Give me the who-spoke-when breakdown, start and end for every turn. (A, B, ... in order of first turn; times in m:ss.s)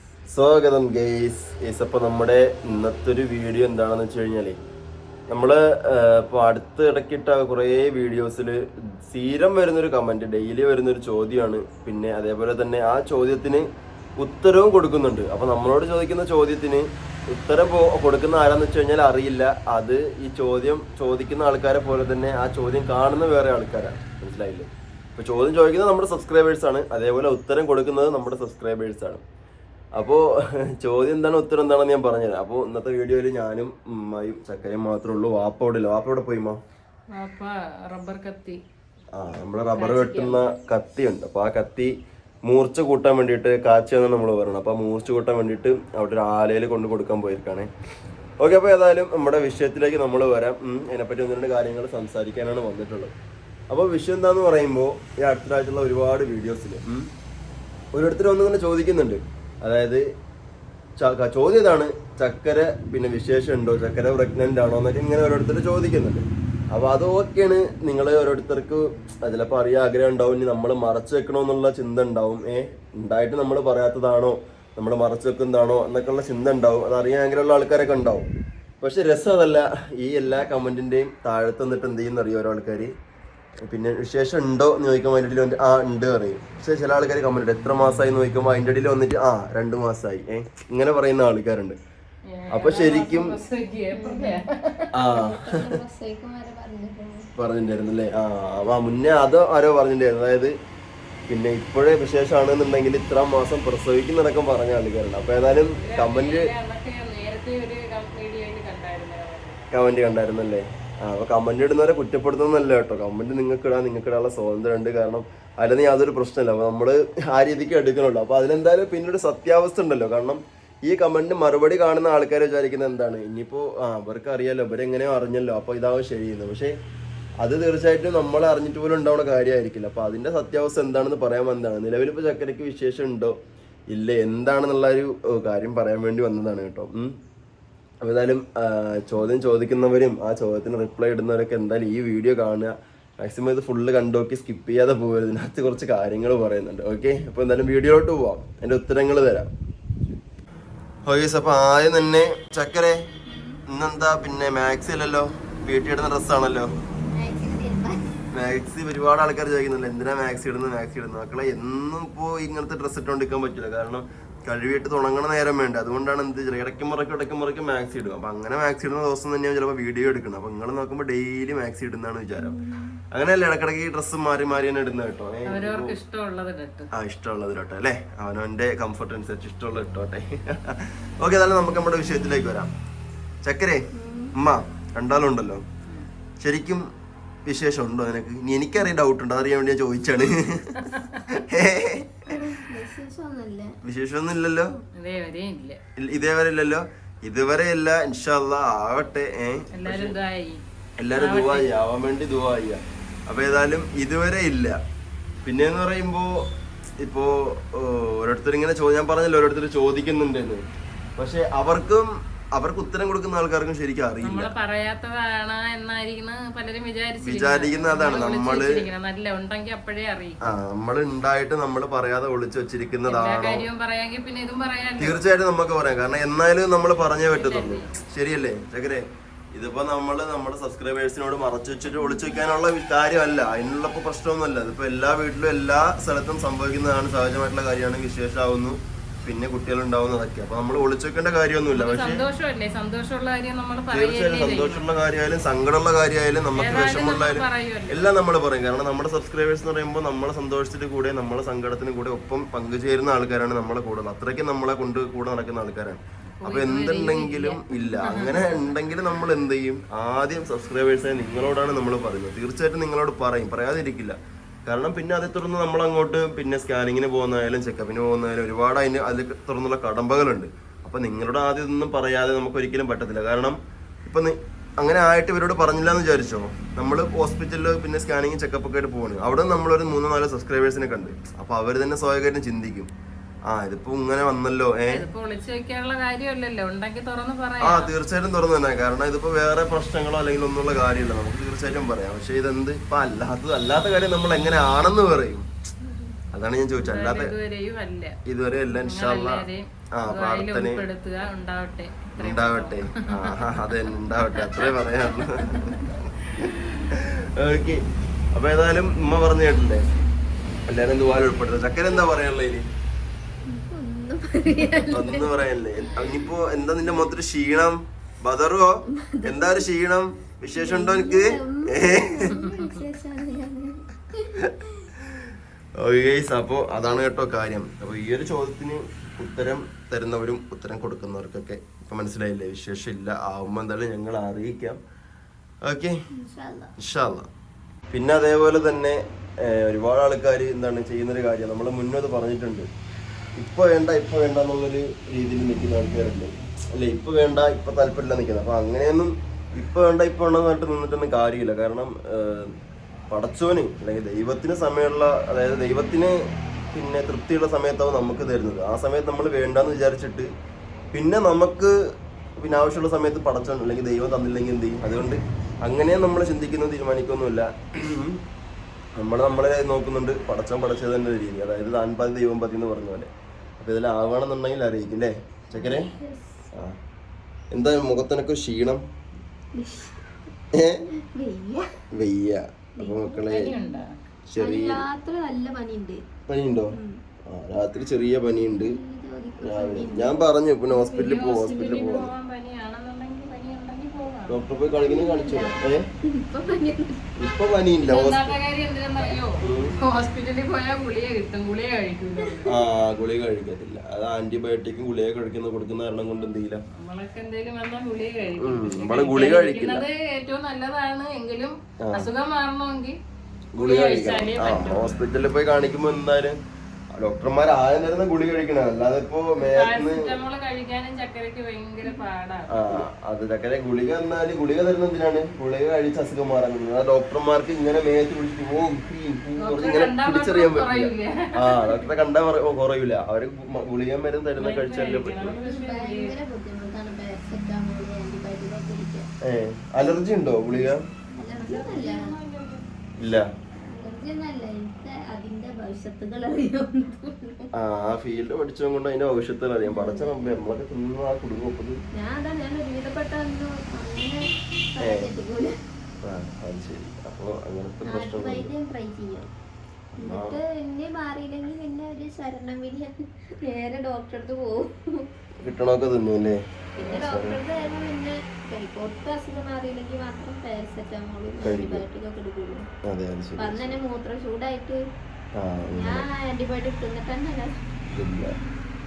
0:00.3-0:04.6 A
0:05.3-0:13.6 A
0:14.2-0:29.2 A
0:30.0-0:36.6 A
0:37.1-0:38.6 B
0:39.2-0:41.9 A
0:39.7-0:40.4 B
0:42.4-0:47.7 A
0:48.4-0:53.1 A
0:53.7-0:57.1 A
0:57.9-1:00.0 A
1:01.0-1:18.3 A
1:18.8-1:22.9 A
1:23.7-1:31.8 A
1:32.3-1:34.9 B
1:32.5-1:33.4 A
1:33.9-1:34.4 C
1:34.9-1:35.6 A
1:35.0-1:37.3 C
1:37.4-1:40.5 A
1:41.3-1:46.5 A
1:45.7-1:49.6 B
1:49.7-2:06.7 A
2:07.4-2:13.3 A
2:13.9-2:17.1 A
2:18.0-2:29.5 A
2:31.0-2:33.0 A
2:33.7-2:36.7 A
2:37.1-2:38.2 C
2:38.3-2:52.6 A
2:52.4-2:53.0 C
2:53.1-2:56.0 A
2:55.4-2:56.9 B
2:56.9-3:02.7 A
3:03.4-3:05.6 A
3:03.9-3:04.3 C
3:06.4-3:06.9 A
3:07.4-3:12.3 A
3:10.8-3:11.2 B
3:12.3-3:13.7 C
3:13.8-3:14.7 A
3:14.9-3:15.8 B
3:16.0-3:20.2 A
3:19.7-3:20.6 B
3:21.0-3:24.8 A
3:21.1-3:21.7 B
3:25.4-3:26.4 A
3:27.0-3:30.6 A
3:31.2-3:34.5 A
3:34.2-3:40.4 B
3:37.2-3:38.8 A
3:40.4-3:43.6 A
3:43.1-3:45.2 B
3:45.0-4:02.2 A
3:47.3-3:47.9 B
4:01.7-4:04.9 B
4:03.9-4:42.9 A
4:06.5-4:08.1 B
4:16.4-4:18.7 B
4:43.5-4:45.1 A
4:44.9-4:47.9 B
4:47.6-4:55.5 A
4:55.8-4:56.1 C
4:56.3-4:57.3 A
4:56.8-4:58.2 B
4:58.2-4:59.4 A
4:58.8-5:05.8 B
5:00.0-5:00.8 A
5:02.2-5:07.8 A
5:08.3-5:09.8 A
5:10.7-5:12.7 A
5:13.4-5:15.3 C
5:14.9-5:22.4 A
5:19.0-5:19.7 C
5:20.5-5:24.1 C
5:22.4-5:22.7 B
5:25.8-5:34.8 A
5:35.6-5:36.0 A
5:36.1-5:36.7 C
5:36.8-5:37.3 A
5:37.9-5:42.7 A
5:43.4-5:52.5 A
5:53.1-5:56.2 A
5:56.7-6:00.3 A
6:00.9-6:01.7 A
6:02.4-6:08.2 A
6:09.0-6:13.1 A
6:13.6-6:15.9 A
6:15.6-6:16.4 C
6:17.5-6:18.8 A
6:19.5-6:20.0 C
6:20.6-6:20.8 A
6:21.1-6:21.7 C
6:21.9-6:23.5 A
6:22.8-6:23.8 C
6:23.3-6:24.0 B
6:24.3-6:24.8 A
6:24.4-6:26.0 C
6:26.3-6:26.7 A
6:26.7-6:27.0 C
6:27.3-6:28.8 A
6:28.2-6:30.2 C
6:29.4-6:32.1 A
6:30.8-6:34.5 B
6:34.3-6:35.8 A
6:34.8-6:37.1 C
6:37.2-6:38.4 A
6:37.8-6:42.5 B
6:39.4-6:39.8 A
6:42.4-6:46.6 A
6:46.7-6:53.0 B
6:48.4-6:49.8 A
6:51.8-6:52.1 A
6:53.5-6:56.4 A
6:53.6-6:55.0 B
6:57.0-7:00.1 A
6:59.4-7:02.8 B
7:02.5-7:15.4 A
7:09.4-7:11.9 B
7:14.4-7:16.1 B
7:15.4-7:19.0 C
7:19.2-7:20.8 A
7:21.1-7:22.1 C
7:21.4-7:22.6 B
7:23.0-7:23.2 A
7:23.7-7:27.5 C
7:27.5-7:31.8 A
7:29.6-7:30.4 C
7:31.9-7:34.2 C
7:34.8-7:35.5 C
7:34.8-7:35.1 A
7:36.0-7:38.5 A
7:37.8-7:39.3 C
7:40.0-7:40.4 A
7:40.0-7:45.0 C
7:45.4-7:47.4 A
7:46.8-7:52.6 C
7:51.4-7:51.8 A
7:52.9-7:53.7 A
7:53.4-7:54.8 C
7:55.4-7:56.0 A
7:55.7-7:57.5 C
7:57.9-7:58.4 A